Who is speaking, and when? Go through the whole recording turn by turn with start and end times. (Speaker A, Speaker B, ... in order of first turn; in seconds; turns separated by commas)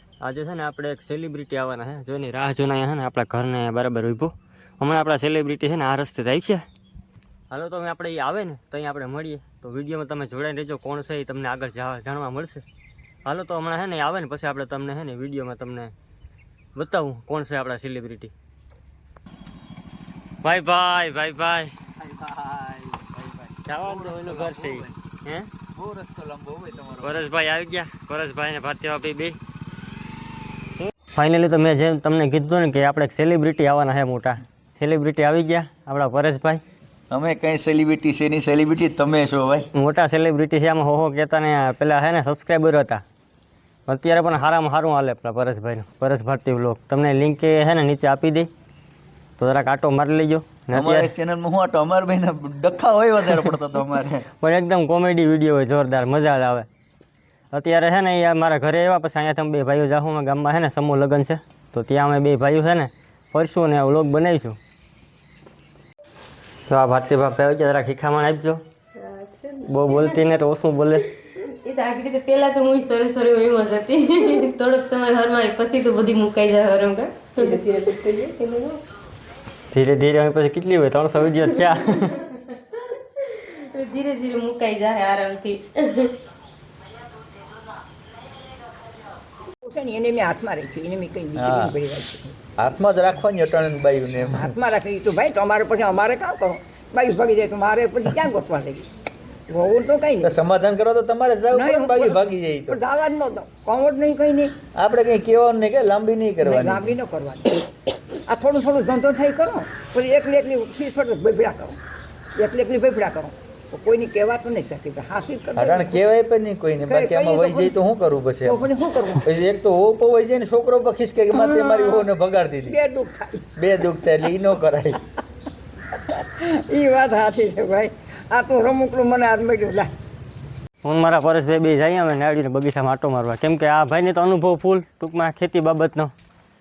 Speaker A: 0.2-6.7, Speaker A: 7.5-12.6, Speaker A: 13.2-15.9, Speaker A: 16.8-18.3, Speaker A: 20.4-21.7, Speaker B: 22.0-24.9, Speaker A: 23.7-25.5, Speaker B: 25.7-27.3, Speaker A: 27.0-29.4, Speaker A: 31.1-36.6, Speaker B: 37.1-39.7, Speaker A: 39.8-43.0, Speaker A: 43.9-48.5, Speaker A: 49.4-51.1, Speaker B: 50.7-54.2, Speaker A: 54.4-56.7, Speaker A: 57.5-64.6, Speaker A: 66.7-68.6, Speaker C: 69.0-70.2, Speaker A: 69.7-71.1, Speaker C: 71.3-78.8, Speaker A: 79.7-82.2, Speaker C: 81.8-86.2, Speaker D: 89.7-92.4, Speaker B: 91.4-91.7, Speaker B: 92.6-94.5, Speaker D: 94.3-98.9, Speaker D: 99.5-100.4, Speaker B: 100.2-102.8, Speaker D: 101.5-104.5, Speaker B: 104.7-107.0, Speaker D: 106.4-107.7, Speaker D: 108.3-111.8, Speaker D: 112.4-116.0, Speaker B: 115.6-118.7, Speaker D: 116.8-117.8, Speaker D: 118.5-119.2, Speaker B: 119.2-122.8, Speaker D: 121.3-122.1, Speaker D: 122.7-123.5, Speaker B: 123.6-125.0, Speaker D: 126.1-129.9, Speaker A: 130.8-136.1